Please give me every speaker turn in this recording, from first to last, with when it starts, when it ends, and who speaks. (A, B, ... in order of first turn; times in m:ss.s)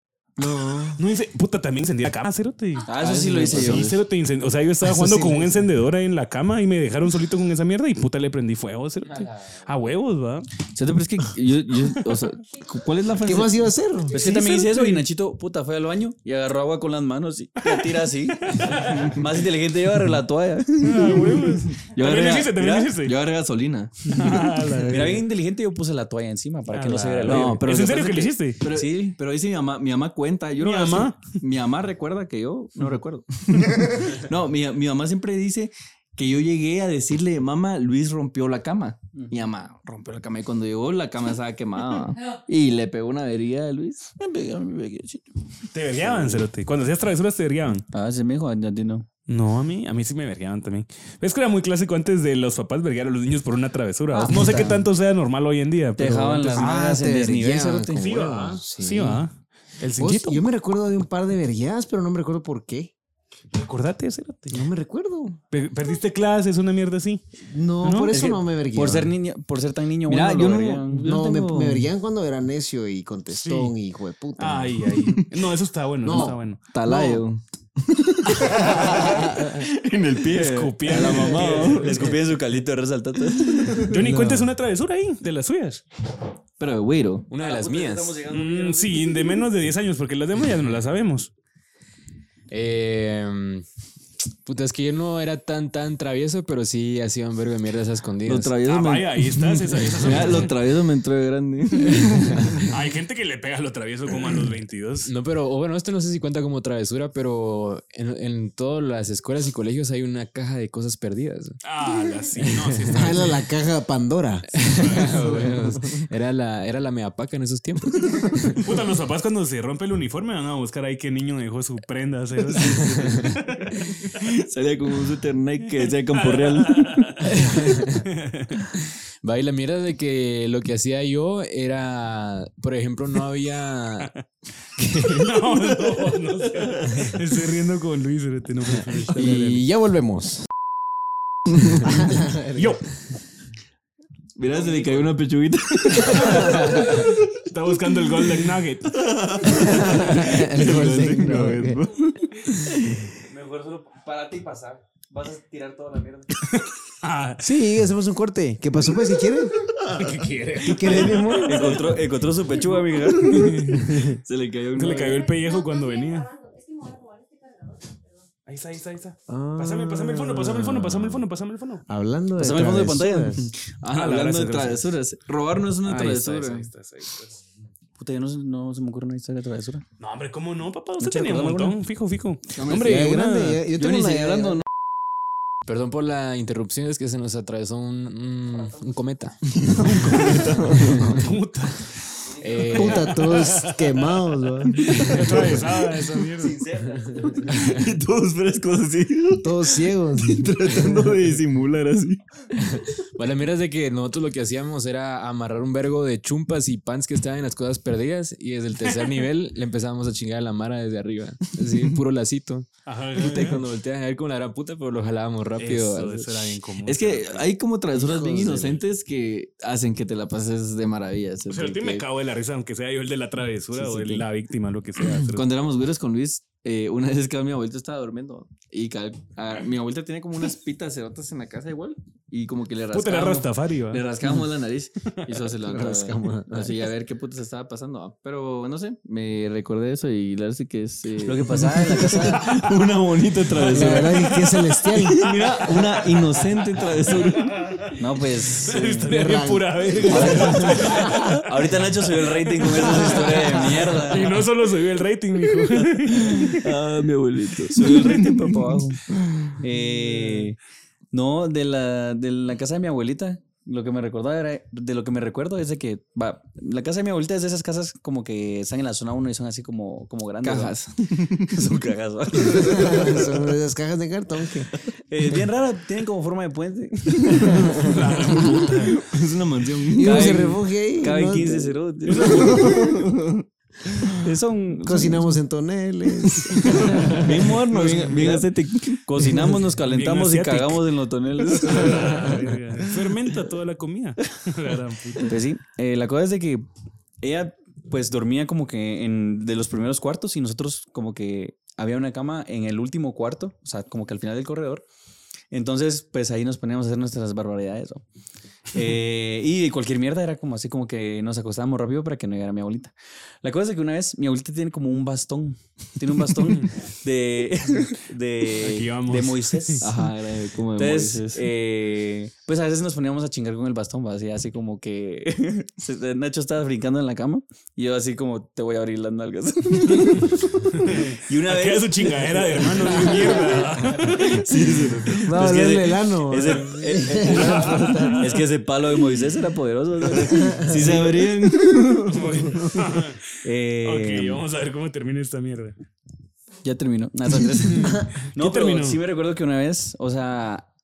0:00.4-0:01.0 A
0:01.0-0:02.9 B
0:02.8-0:03.9 C
0:02.9-0:04.0 D
0:03.4-0:10.5 B
0:04.8-0:05.6 A
0:09.2-0:09.5 E
0:10.8-0:13.7 D
0:13.2-0:14.2 A
0:14.1-0:21.6 C
0:14.1-0:15.0 B
0:17.6-0:19.2 B
0:18.8-0:19.1 D
0:20.8-0:23.1 B
0:21.8-0:24.8 D
0:24.0-0:25.2 B
0:24.8-0:27.6 C
0:26.7-0:28.6 B
0:27.2-0:44.2 D
0:28.7-0:29.2 C
0:30.6-0:31.3 B
0:44.2-0:45.2 C
0:45.7-0:47.8 B
0:46.0-0:46.3 C
0:47.9-0:49.1 C
0:49.3-0:56.7 B
0:54.1-0:54.6 C
0:54.2-0:54.8 A
0:56.0-0:58.0 C
0:56.6-0:59.2 A
0:58.0-1:00.5 B
1:00.0-1:02.9 A
1:03.5-1:04.7 B
1:04.5-1:05.4 A
1:05.5-1:07.2 B
1:07.5-1:09.1 A
1:07.8-1:08.3 B
1:08.1-1:11.4 C
1:10.1-1:11.8 D
1:11.0-1:14.9 A
1:13.3-1:13.7 B
1:14.4-1:16.6 B
1:16.0-1:17.2 A
1:16.2-1:24.0 D
1:18.4-1:19.6 A
1:20.3-1:22.2 B
1:20.9-1:23.4 C
1:23.8-1:25.8 B
1:24.0-1:24.4 A
1:26.6-1:27.3 D
1:27.3-1:28.2 E
1:27.4-1:29.3 C
1:28.2-1:31.3 B
1:32.5-1:33.6 E
1:34.4-1:38.5 E
1:38.2-1:42.7 D
1:38.6-1:40.6 B
1:39.8-1:40.4 E
1:42.7-1:45.1 B
1:45.0-1:51.6 E
1:51.6-1:53.4 B
1:52.4-1:53.2 E
1:52.9-1:55.8 A
1:54.5-1:58.5 E
1:54.6-1:55.4 B
1:58.6-2:04.2 B
2:04.0-2:07.3 D
2:06.1-2:08.7 B
2:07.3-2:08.0 E
2:09.2-2:14.1 E
2:14.8-2:15.3 E
2:15.2-2:19.7 B
2:16.5-2:17.1 D
2:19.1-2:20.5 A
2:21.5-2:21.8 D
2:21.8-2:22.7 A
2:22.5-2:22.8 B
2:24.4-2:27.2 D
2:24.5-2:25.1 C
2:26.0-2:29.1 B
2:26.2-2:26.9 A
2:28.1-2:33.1 D
2:29.4-2:31.8 A
2:33.2-2:36.3 C
2:36.4-2:37.5 B
2:37.4-2:39.5 A
2:39.6-2:40.2 D
2:39.9-2:42.0 B
2:40.6-2:41.9 A
2:40.8-2:45.3 D
2:41.4-2:43.4 C
2:43.1-2:44.1 B
2:43.9-2:44.2 A
2:44.7-2:46.3 B
2:44.9-2:48.3 F
2:48.4-2:51.8 B
2:49.3-2:51.2 A
2:51.9-2:53.5 A
2:52.4-2:53.5 C
2:53.7-2:56.7 D
2:53.9-2:54.9 B
2:55.9-2:57.4 B
2:58.0-2:59.8 C
3:00.0-3:03.6 B
3:01.0-3:01.7 C
3:02.5-3:03.0 D
3:02.8-3:04.6 A
3:03.8-3:04.6 D
3:05.6-3:09.6 E
3:09.5-3:11.2 D
3:09.9-3:10.4 B
3:11.1-3:12.1 B
3:12.4-3:13.2 E
3:12.7-3:15.7 A
3:12.9-3:16.6 B
3:14.8-3:15.5 D
3:16.4-3:17.5 C
3:17.2-3:22.2 D
3:19.4-3:21.2 A
3:22.5-3:36.5 E
3:31.7-3:32.0 D
3:32.8-3:33.6 B
3:35.6-3:37.5 B
3:36.8-3:42.0 D
3:37.9-3:38.8 A
3:41.5-3:45.5 B
3:43.7-3:44.2 D
3:45.2-4:07.6 D
3:52.9-3:54.1 B
3:55.6-3:56.9 A
4:01.2-4:02.5 C
4:03.6-4:05.3 A
4:03.6-4:04.7 B
4:05.2-4:06.4 B
4:07.3-4:08.0 B
4:08.0-4:09.1 C
4:08.6-4:11.4 B
4:09.1-4:11.4 A
4:10.0-4:14.4 C
4:12.6-4:12.9 B
4:12.8-4:13.8 A
4:14.0-4:16.8 B
4:15.5-4:19.6 D
4:17.8-4:19.0 C
4:19.6-4:20.6 C
4:20.0-4:20.5 B
4:21.1-4:30.7 C
4:30.4-4:31.6 D
4:31.5-4:33.2 C
4:32.4-4:34.7 A
4:35.1-4:38.4 C
4:37.5-4:38.7 A
4:37.8-4:39.0 B
4:38.7-4:40.5 D
4:40.0-4:43.1 A
4:40.0-4:42.6 C
4:42.0-4:42.8 B
4:42.3-4:43.4 D
4:44.2-4:45.3 C
4:44.8-4:47.2 A
4:46.2-4:49.5 D
4:46.5-4:48.4 B
4:49.0-4:52.3 C
4:49.6-4:50.9 B
4:51.5-4:52.4 D
4:51.5-4:55.4 B
4:55.2-4:56.7 C
4:57.2-5:04.8 C
5:05.5-5:08.0 C
5:08.7-5:19.9 C
5:16.4-5:16.7 B
5:18.6-5:19.9 B
5:19.8-5:21.4 D
5:20.8-5:33.5 C
5:30.7-5:34.5 B
5:34.0-5:35.4 D
5:35.2-5:41.1 C
5:35.2-5:38.3 A
5:37.3-5:38.4 B
5:40.0-5:43.0 D
5:40.3-5:41.0 A
5:42.1-5:45.8 B
5:43.4-5:44.4 C
5:46.6-5:50.7 C
5:47.6-5:49.0 B
5:47.9-5:48.1 A